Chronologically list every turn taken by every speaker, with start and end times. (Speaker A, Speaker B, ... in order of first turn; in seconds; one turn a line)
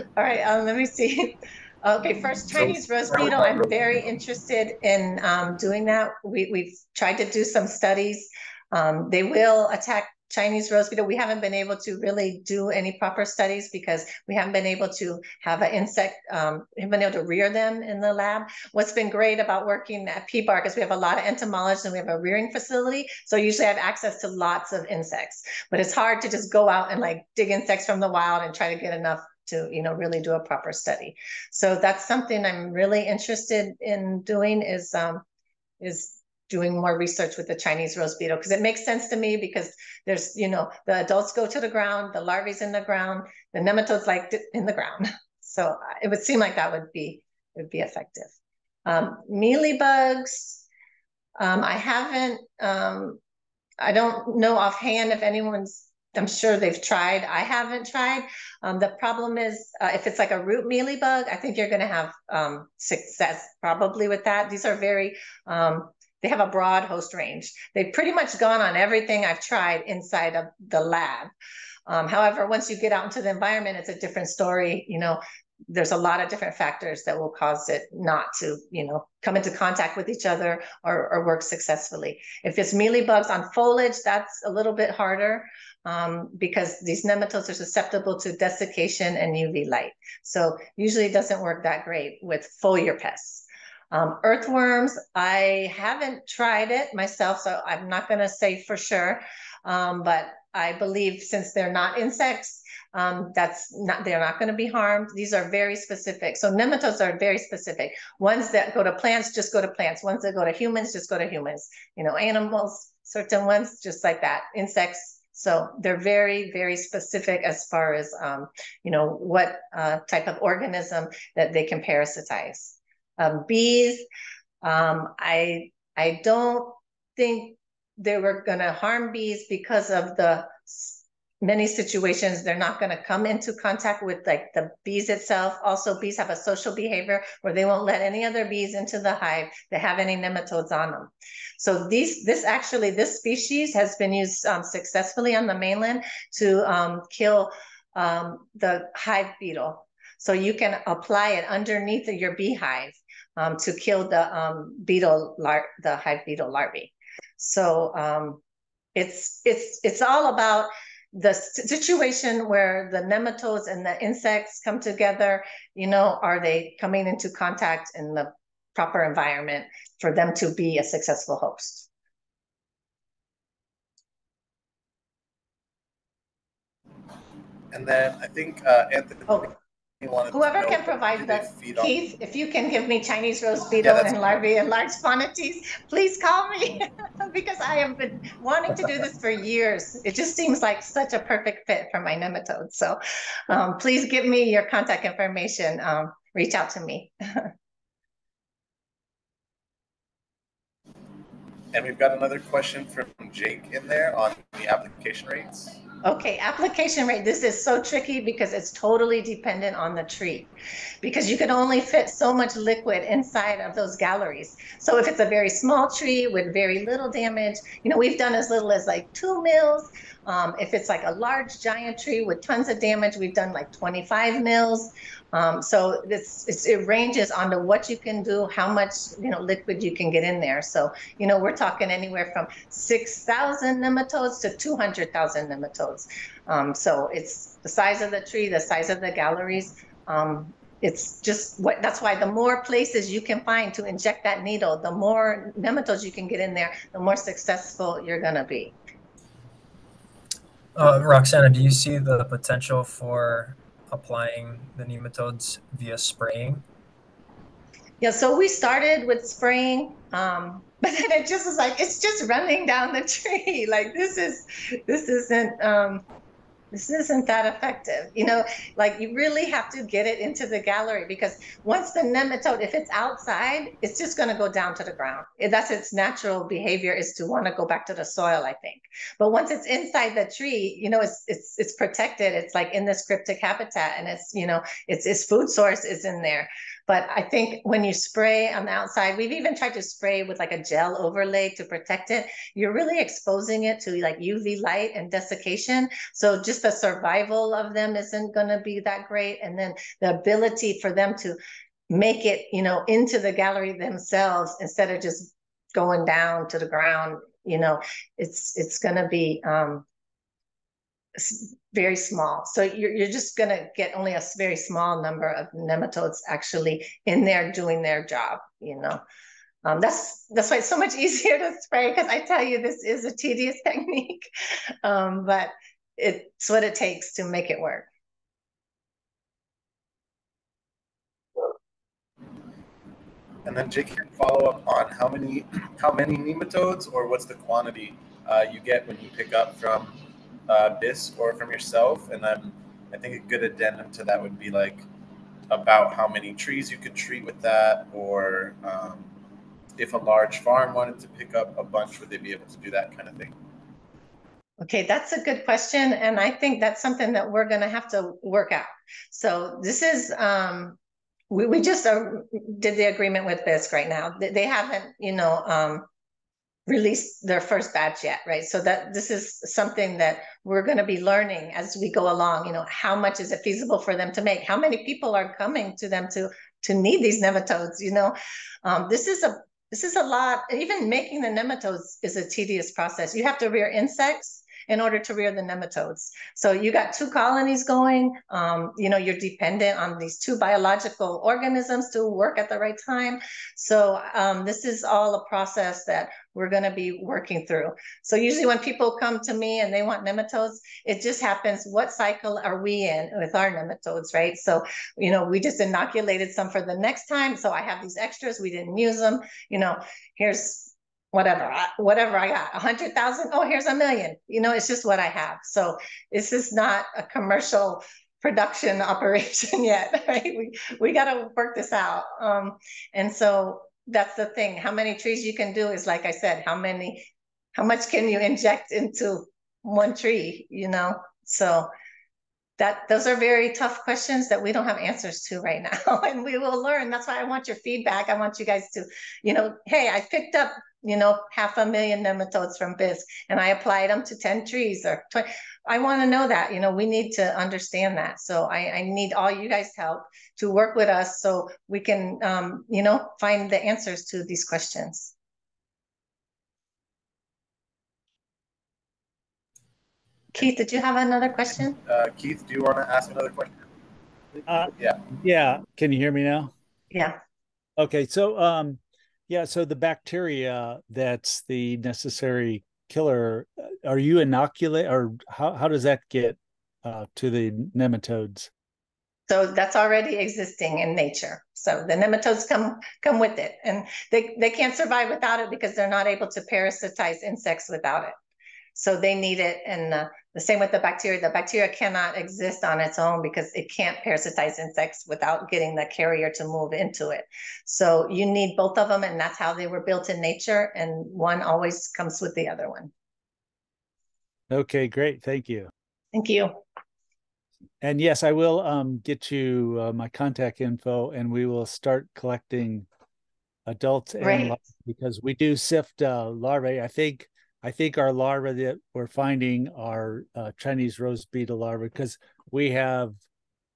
Speaker A: 0.2-35.2
Speaker B: 2.5-3.8
Speaker A: 35.8-48.3
Speaker A: 48.9-50.6
Speaker A: 51.4-53.2
Speaker A: 53.8-71.3
Speaker A: 71.9-124.1
Speaker A: 124.6-158.4
Speaker A: 158.9-171.9
Speaker B: 177.7-181.9
Speaker A: 180.3-197.5
Speaker B: 183.8-184.4
Speaker B: 201.7-205.8
Speaker A: 206.0-210.5
Speaker A: 211.0-248.8
Speaker C: 250.8-256.6
Speaker A: 258.0-266.0
Speaker A: 266.7-301.4
Speaker A: 301.9-309.9
Speaker A: 311.2-319.0
Speaker A: 319.6-324.3
Speaker A: 324.8-327.9
Speaker B: 333.4-344.8
Speaker B: 345.5-349.1
Speaker B: 349.8-353.4
Speaker A: 354.6-360.8
Speaker A: 361.3-365.9
Speaker A: 366.7-431.7
Speaker A: 432.6-455.1
Speaker A: 460.3-461.8
Speaker B: 461.9-463.6
Speaker D: 464.5-466.5
Speaker B: 464.7-465.1
Speaker A: 466.9-467.2
Speaker D: 467.8-478.5
Speaker A: 479.3-488.1
Speaker A: 488.8-502.9
Speaker D: 504.5-505.7
Speaker A: 506.1-506.6
Speaker D: 507.8-512.9
Speaker D: 513.7-523.2
Speaker A: 514.2-514.6